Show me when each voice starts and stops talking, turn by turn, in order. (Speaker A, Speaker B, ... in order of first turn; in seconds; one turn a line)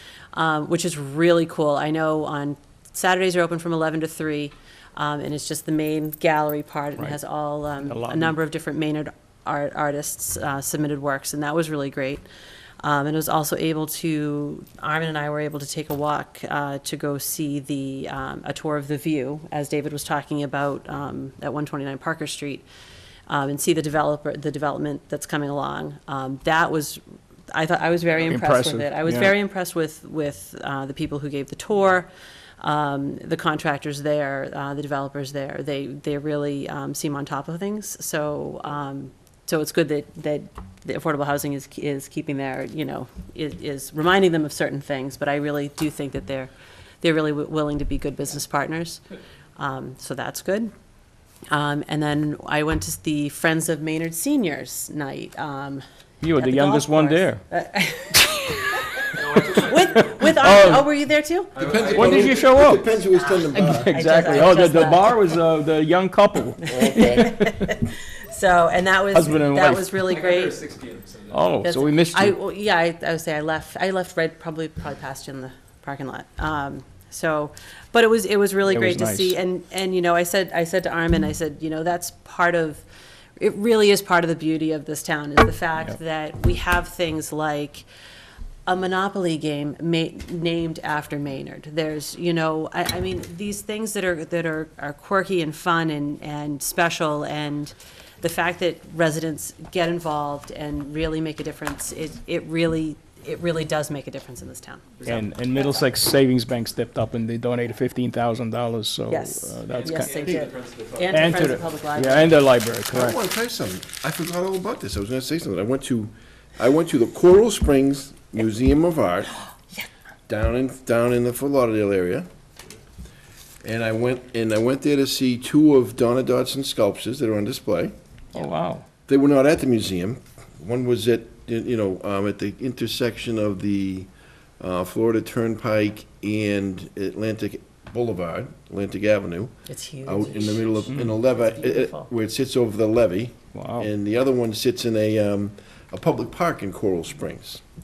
Speaker A: 0.3-12.2
Speaker B: 7.8-8.3
Speaker A: 12.8-22.6
Speaker A: 23.3-27.0
Speaker A: 27.5-32.1
Speaker B: 28.3-29.3
Speaker A: 32.6-49.0
Speaker A: 49.6-50.7
Speaker A: 51.5-55.8
Speaker B: 56.2-57.4
Speaker A: 56.3-61.5
Speaker C: 59.1-60.6
Speaker B: 60.3-60.9
Speaker C: 61.5-62.8
Speaker D: 61.5-64.0
Speaker B: 61.9-62.9
Speaker B: 63.5-67.8
Speaker A: 63.5-65.3
Speaker A: 66.6-70.6
Speaker D: 66.7-67.2
Speaker B: 69.1-70.0
Speaker C: 70.0-71.4
Speaker B: 71.3-72.3
Speaker A: 71.6-82.8
Speaker B: 78.7-79.3
Speaker A: 83.4-87.8
Speaker A: 88.7-105.0
Speaker C: 105.0-105.3
Speaker B: 105.0-110.3
Speaker A: 109.1-112.3
Speaker C: 109.7-111.5
Speaker B: 111.1-113.2
Speaker D: 112.9-119.3
Speaker D: 120.3-122.2
Speaker D: 123.6-127.9
Speaker B: 128.3-128.8
Speaker D: 129.1-134.1
Speaker D: 134.6-139.5
Speaker A: 139.7-140.9
Speaker D: 140.0-147.6
Speaker B: 140.9-141.2
Speaker A: 141.4-142.1
Speaker B: 143.5-143.9